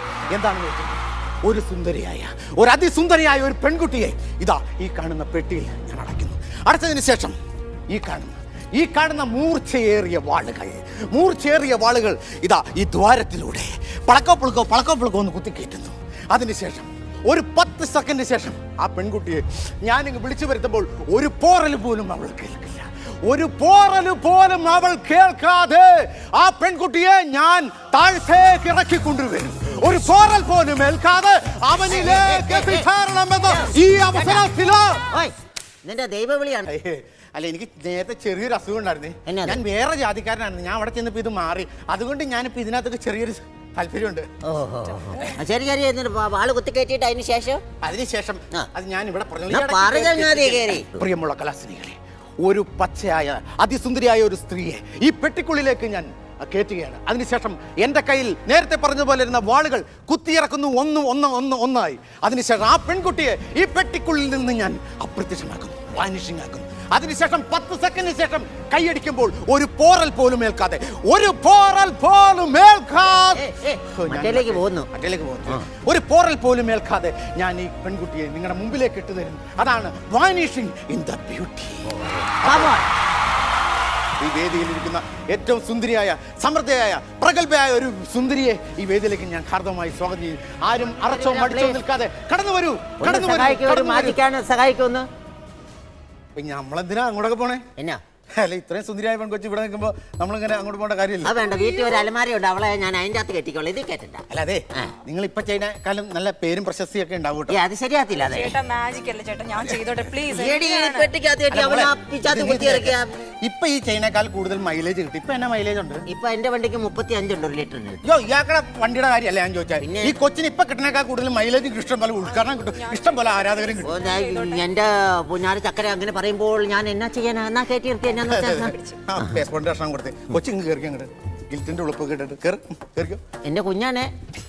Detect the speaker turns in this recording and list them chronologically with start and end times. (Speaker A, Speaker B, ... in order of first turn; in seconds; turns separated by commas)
Speaker A: 0.3-7.4, Speaker A: 7.9-35.0, Speaker B: 31.9-32.9, Speaker B: 33.4-34.5, Speaker B: 35.8-36.7, Speaker A: 36.6-44.3, Speaker B: 39.3-39.6, Speaker B: 44.4-47.6, Speaker A: 47.8-82.8, Speaker B: 49.5-51.0, Speaker B: 73.3-74.9, Speaker B: 81.9-82.9, Speaker A: 84.2-94.2, Speaker B: 91.0-91.8, Speaker B: 93.0-95.1, Speaker A: 96.3-97.6, Speaker A: 98.4-101.3, Speaker B: 101.2-104.2, Speaker A: 104.3-107.6, Speaker B: 107.5-108.6, Speaker C: 108.2-111.1, Speaker B: 110.3-113.2, Speaker A: 111.5-116.0, Speaker B: 116.1-118.0, Speaker A: 118.0-124.0, Speaker B: 119.8-120.2, Speaker C: 122.5-124.7, Speaker B: 123.8-129.4, Speaker A: 128.3-133.2, Speaker B: 133.4-134.1